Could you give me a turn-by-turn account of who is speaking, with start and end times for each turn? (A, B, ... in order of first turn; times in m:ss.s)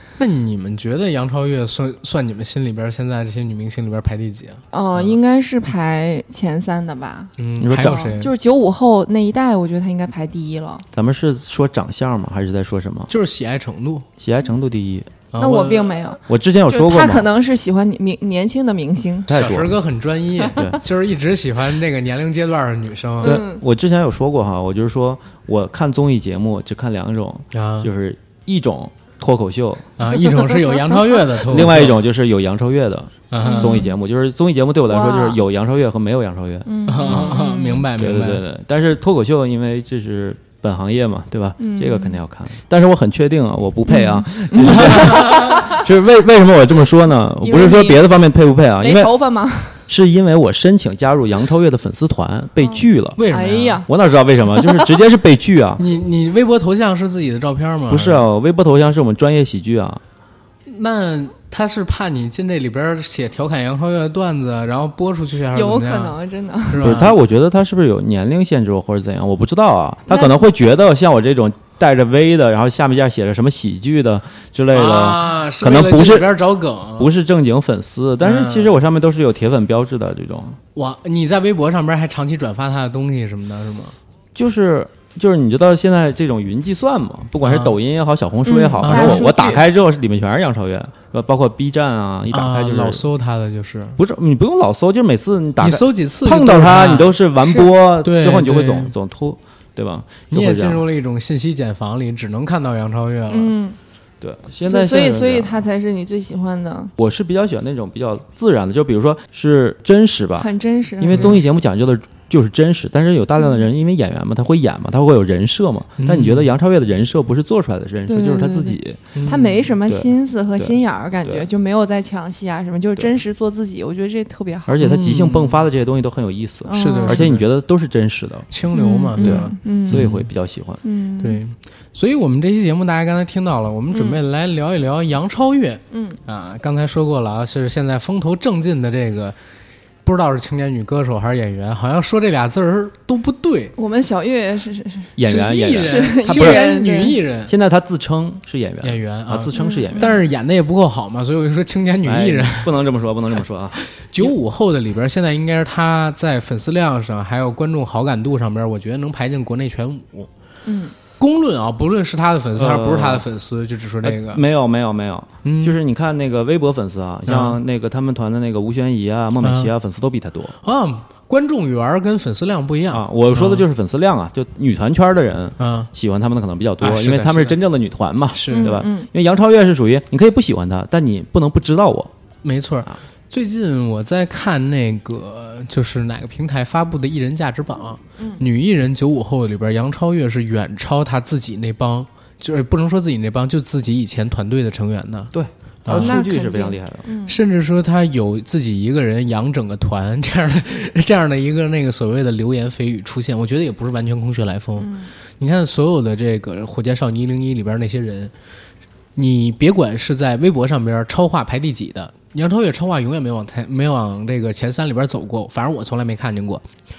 0:00.2-0:05.1 A
0:04.7-0:10.8 B
0:07.4-0:08.3 A
0:07.6-0:08.0 C
0:10.9-0:13.1 C
0:13.1-0:14.1 A
0:14.2-0:15.1 C
0:15.3-0:16.0 A
0:15.4-0:19.3 B
0:16.3-0:17.3 C
0:19.3-0:19.7 C
0:19.3-0:23.3 A
0:20.5-0:20.8 C
0:23.2-0:23.6 B
0:23.2-0:29.9 C
0:27.5-0:27.9 A
0:30.0-0:32.0 A
0:31.3-0:37.3 C
0:33.3-0:33.8 A
0:33.4-0:33.9 B
0:34.9-0:35.4 B
0:36.6-0:37.9 B
0:36.9-0:38.4 A
0:38.0-0:49.1 C
0:41.6-0:42.2 B
0:43.9-0:45.8 B
0:44.6-0:45.6 A
0:47.4-0:48.0 B
0:48.8-0:49.8 B
0:49.9-0:53.2 C
0:52.6-0:53.9 B
0:53.2-0:53.8 A
0:53.8-0:55.8 C
0:54.5-0:55.0 B
0:55.8-0:58.2 A
0:57.9-1:00.0 C
1:00.6-1:07.2 A
1:05.5-1:06.9 B
1:06.8-1:16.4 C
1:10.1-1:10.4 B
1:14.7-1:17.1 A
1:17.0-1:20.6 C
1:18.2-1:18.8 A
1:20.7-1:23.9 A
1:24.3-1:33.0 C
1:27.4-1:27.8 A
1:28.4-1:29.6 B
1:28.8-1:29.5 A
1:32.3-1:34.0 A
1:34.0-1:40.8 C
1:35.6-1:37.1 A
1:37.4-1:37.7 B
1:38.0-1:38.9 A
1:40.3-1:43.5 A
1:43.3-1:43.8 B
1:44.2-1:45.6 C
1:44.6-1:46.9 B
1:47.0-1:50.5 C
1:50.4-1:51.3 B
1:51.0-1:59.2 C
1:51.1-1:51.4 A
1:56.0-1:56.5 A
1:58.1-2:04.8 B
1:59.1-1:59.6 A
1:59.9-2:01.4 C
2:04.7-2:08.5 C
2:04.8-2:05.6 A
2:06.6-2:07.3 B
2:06.7-2:07.4 A
2:08.5-2:10.3 A
2:08.7-2:10.1 B
2:09.2-2:10.8 C
2:10.8-2:11.4 B
2:11.2-2:19.4 A
2:13.9-2:14.2 B
2:15.9-2:16.2 B
2:20.0-2:23.7 A
2:23.8-2:25.2 B
2:25.2-2:26.6 C
2:25.2-2:27.5 A
2:25.7-2:27.2 B
2:27.5-2:30.1 C
2:28.8-2:32.8 A
2:29.5-2:30.2 B
2:32.0-2:34.3 C
2:33.7-2:40.3 A
2:40.6-2:40.9 B
2:41.2-2:44.4 A
2:42.6-2:43.3 C
2:44.0-2:50.5 C
2:45.4-2:45.7 A
2:47.3-2:47.6 A
2:49.4-2:49.7 A
2:50.6-2:53.6 A
2:52.9-3:02.1 C
2:55.6-2:55.9 A
2:56.8-2:57.6 A
2:58.3-2:58.8 A
2:58.5-2:59.1 B
3:02.4-3:15.3 A
3:15.3-3:17.1 C
3:15.8-3:16.2 A
3:15.9-3:17.4 B
3:17.2-3:28.3 A
3:24.8-3:25.1 B
3:29.2-3:36.6 A